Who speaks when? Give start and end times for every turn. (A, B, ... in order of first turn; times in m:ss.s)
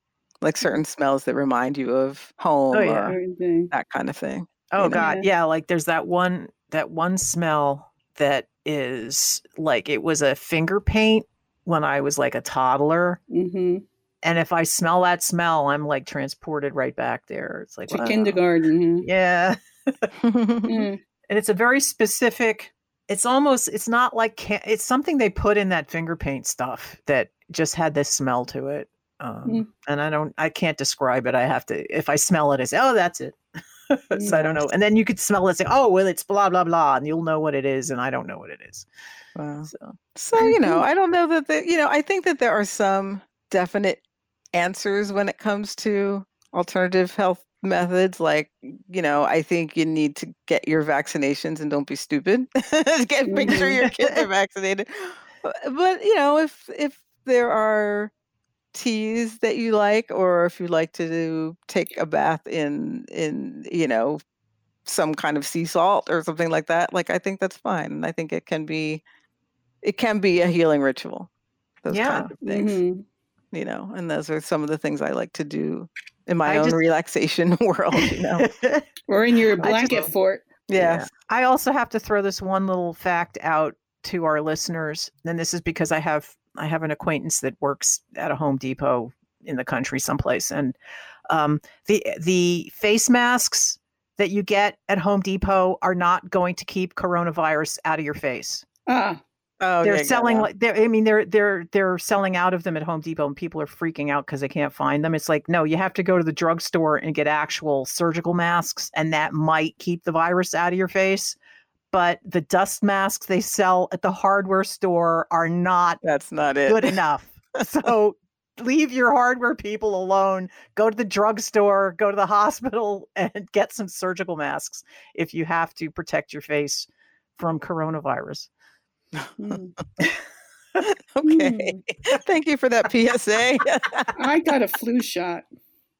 0:00.4-0:03.2 A
0:02.7-0:03.1 B
0:03.0-0:03.7 C
0:03.7-0:05.1 A
0:04.7-0:13.2 B
0:05.0-0:05.2 C
0:13.3-0:13.8 C
0:14.2-0:18.4 B
0:17.9-0:19.1 C
0:19.0-0:20.1 B
0:20.2-0:20.9 A
0:20.7-0:21.0 C
0:21.3-0:33.4 B
0:33.9-0:38.8 B
0:34.1-0:34.4 C
0:34.2-0:34.6 A
0:39.4-0:58.1 A
0:39.6-0:40.7 B
0:53.3-0:53.8 C
0:53.8-0:54.2 B
0:58.7-1:04.2 A
1:04.8-1:09.0 A
1:09.8-1:11.3 A
1:11.8-1:12.8 A
1:11.9-1:12.3 B
1:12.4-1:13.0 C
1:13.5-1:18.4 A
1:16.4-1:16.8 B
1:18.0-1:18.8 B
1:19.1-1:20.5 C
1:19.6-1:20.1 B
1:20.7-1:21.1 A
1:20.7-1:30.8 B
1:31.3-1:38.6 B
1:38.9-1:39.2 C
1:39.6-1:40.5 A
1:39.8-1:51.4 B
1:51.9-1:56.0 B
1:56.0-1:57.0 A
1:56.7-2:08.5 B
2:09.1-2:09.6 A
2:09.4-2:09.7 C
2:10.8-2:14.1 A
2:11.2-2:11.8 C
2:14.2-2:15.4 C